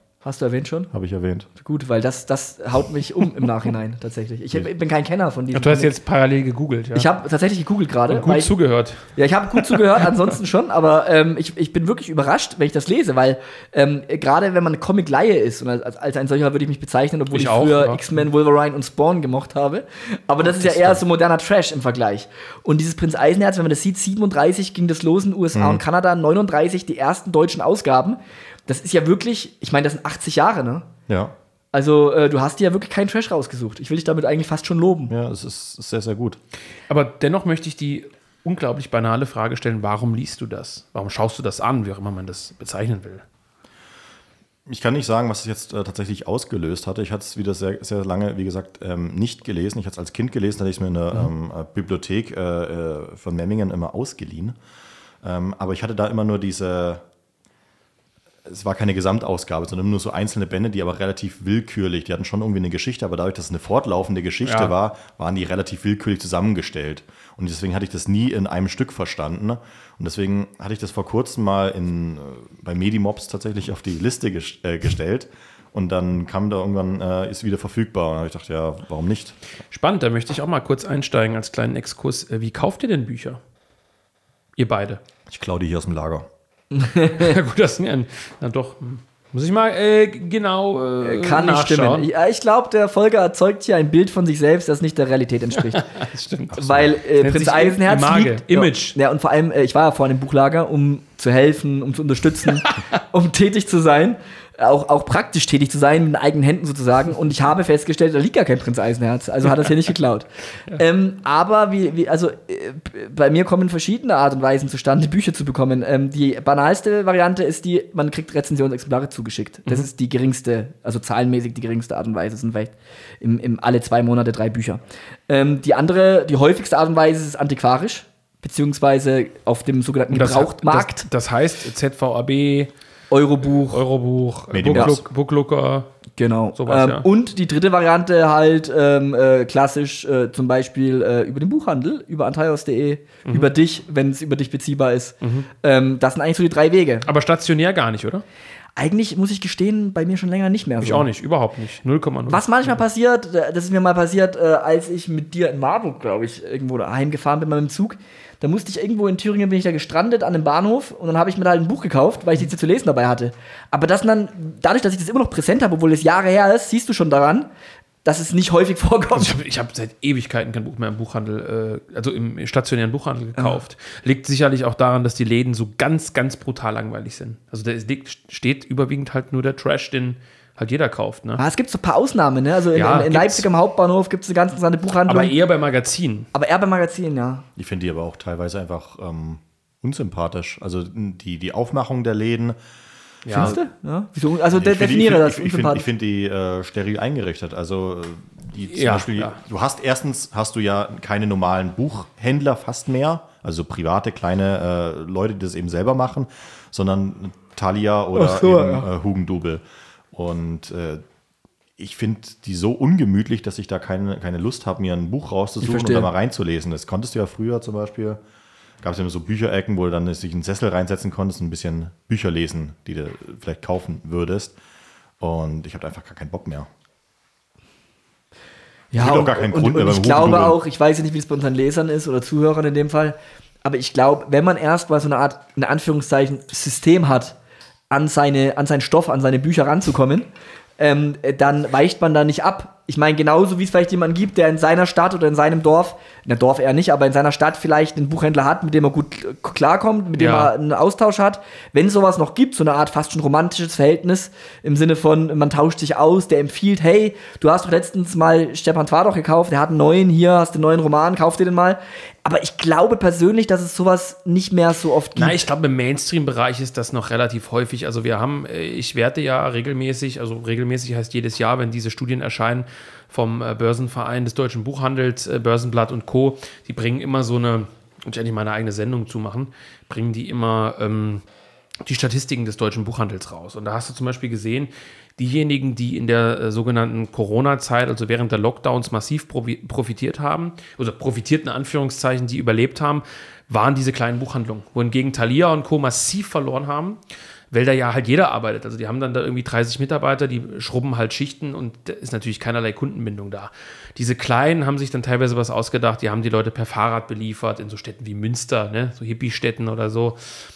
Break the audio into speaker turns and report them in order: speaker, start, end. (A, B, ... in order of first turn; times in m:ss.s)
0:00.2-0:00.9 A
0:00.9-0:01.5 B
0:01.6-0:05.9 A
0:05.5-0:07.1 C
0:06.9-0:08.5 A
0:08.1-0:09.0 C
0:09.0-0:30.9 A
0:09.6-0:09.8 C
0:17.3-0:18.0 C
0:20.6-0:21.0 B
0:25.5-0:25.8 B
0:31.1-0:31.3 B
0:31.7-0:35.1 A
0:35.1-0:36.4 B
0:36.9-0:43.2 C
0:44.7-0:54.6 B
0:55.2-0:57.0 B
0:58.5-1:19.4 B
1:04.4-1:04.7 C
1:19.7-1:23.4 C
1:24.6-1:25.0 C
1:25.3-1:26.3 B
1:26.7-1:27.4 A
1:27.0-1:32.1 C
1:31.0-1:35.8 A
1:35.6-1:39.0 C
1:36.6-1:36.9 B
1:36.6-2:11.1 A
2:10.1-2:12.7 C
2:13.1-2:13.8 A
2:13.6-2:15.9 C
2:14.5-2:15.0 B
2:16.2-2:27.1 A
2:16.6-2:17.1 C
2:25.2-2:25.5 C
2:27.1-2:28.2 C
2:28.8-2:31.1 A
2:30.8-2:32.8 C
2:32.3-2:47.5 A
2:48.0-2:49.4 A
2:49.1-3:01.4 C
3:01.4-3:05.3 A
3:02.8-3:03.5 C
3:05.1-3:06.3 C
3:06.3-3:07.5 A
3:07.6-3:12.6 B
3:13.2-3:13.6 C
3:13.3-3:15.8 A
3:14.5-3:31.0 B
3:18.7-3:19.4 C
3:28.1-3:28.9 A
3:31.8-3:38.2 B
3:35.6-3:36.1 A
3:38.8-3:44.6 B
3:45.2-3:46.7 B
3:48.9-3:57.4 A
3:49.0-3:50.6 B
3:57.9-4:00.3 A
4:00.8-4:25.5 A
4:10.2-4:10.5 C
4:25.2-4:41.2 C
4:41.8-4:57.0 C
4:57.5-5:10.2 C